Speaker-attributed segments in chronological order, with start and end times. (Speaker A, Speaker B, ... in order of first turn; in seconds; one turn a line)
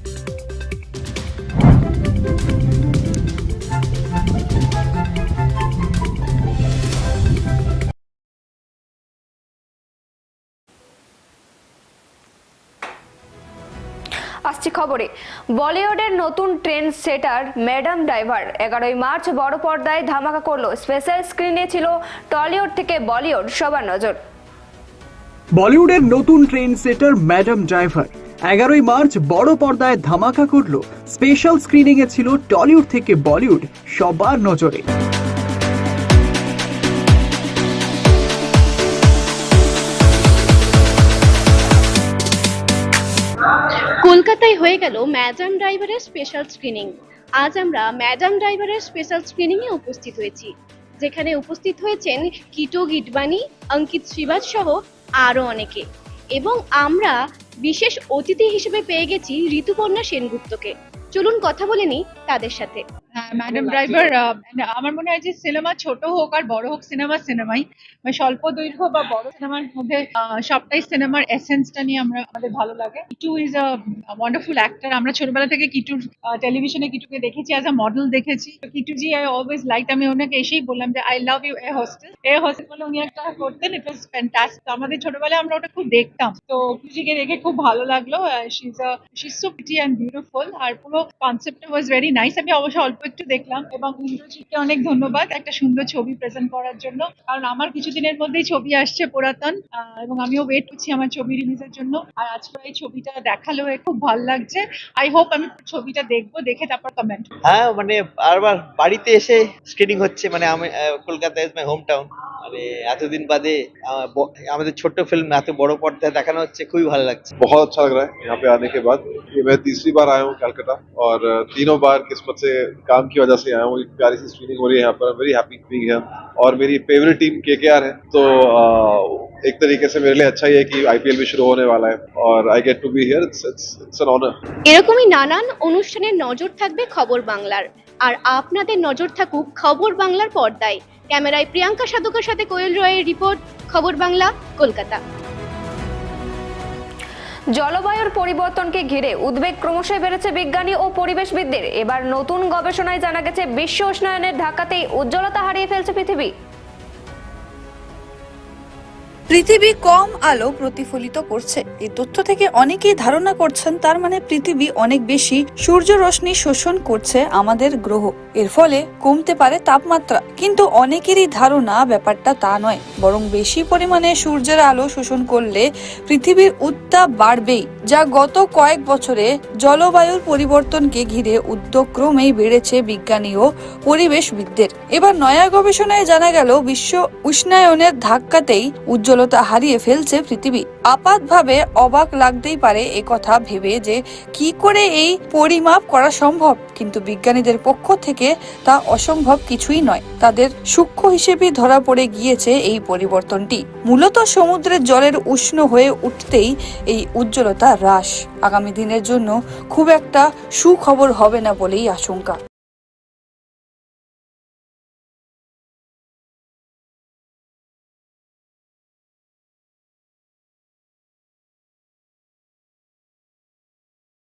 Speaker A: 14.5-24.2
Speaker B: 25.6-34.8
Speaker C: 44.0-62.8
Speaker D: 63.2-107.3
Speaker E: 107.5-117.3
Speaker F: 117.4-134.3
Speaker C: 134.7-145.0
Speaker A: 147.6-156.3
Speaker G: 159.3-212.4